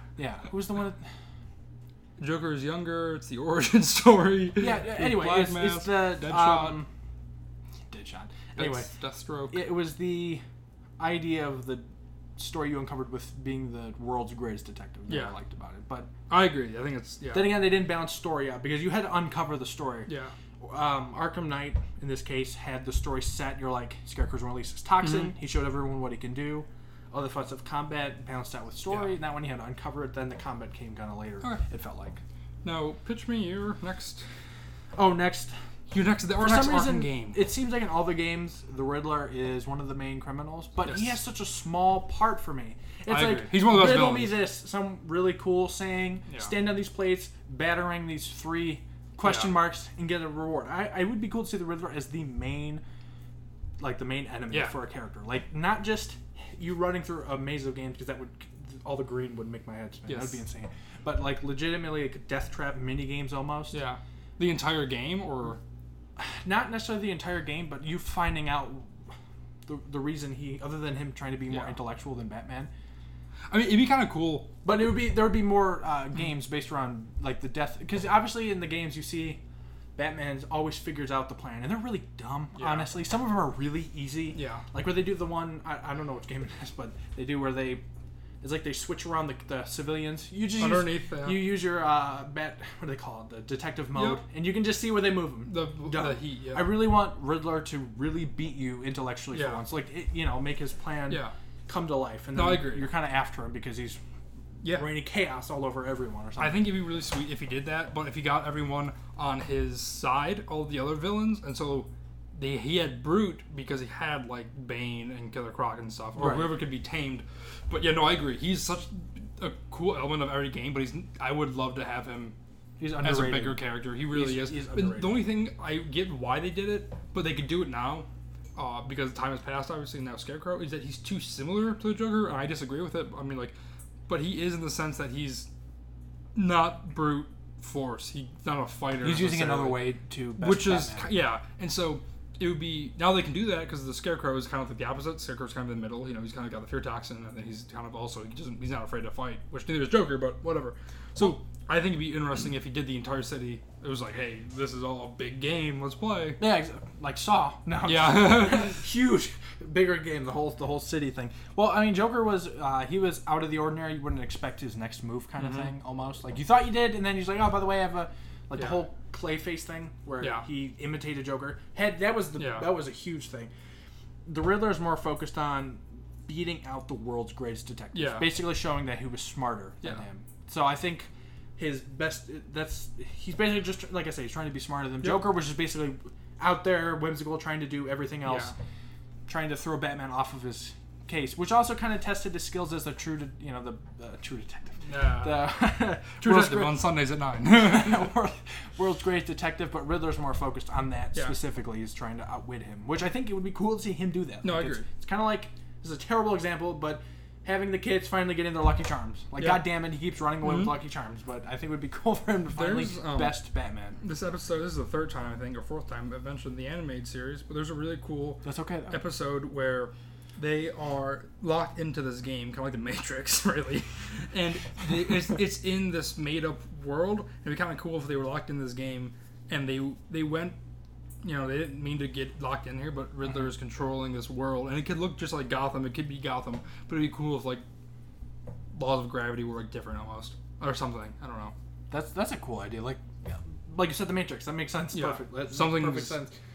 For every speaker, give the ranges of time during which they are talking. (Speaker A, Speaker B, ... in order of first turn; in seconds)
Speaker A: 0.2-1.0, 4.6-6.9, 7.9-8.9, 9.5-10.4, 11.0-16.1, 17.3-20.1, 20.6-32.2, 34.9-35.5, 36.4-52.8, 53.8-63.8, 66.2-68.9, 69.7-72.7, 74.6-79.4, 80.0-87.8, 88.4-104.0, 104.7-106.7, 116.2-116.6, 122.8-125.2, 139.0-141.1, 156.4-173.5, 174.2-188.5, 189.2-196.9, 197.4-214.0, 218.4-219.0, 241.9-246.3
Speaker B: 2.2-6.8, 8.6-9.7, 15.1-15.3, 16.3-17.7, 20.1-20.3, 25.0-25.3, 28.9-29.1, 32.6-34.2, 35.9-37.4, 40.8-41.2, 43.1-44.4, 49.2-49.6, 60.1-60.4, 63.7-65.6, 71.5-71.7, 73.5-74.5, 82.5-82.9, 84.3-84.6, 90.6-91.6, 93.9-94.2, 95.5-97.0, 99.3-99.6, 101.1-101.3, 102.3-102.9, 104.6-104.9, 106.4-122.3, 123.0-133.6, 134.1-135.5, 136.3-156.4, 157.8-158.8, 165.4-165.7, 168.6-168.8, 172.4-172.7, 177.9-178.4, 185.0-185.4, 188.2-188.5, 194.8-195.5, 196.1-198.1, 204.4-204.8, 209.4-209.7, 210.4-210.7, 212.5-213.4, 214.0-230.6, 231.2-237.6, 238.7-241.5, 244.9-246.2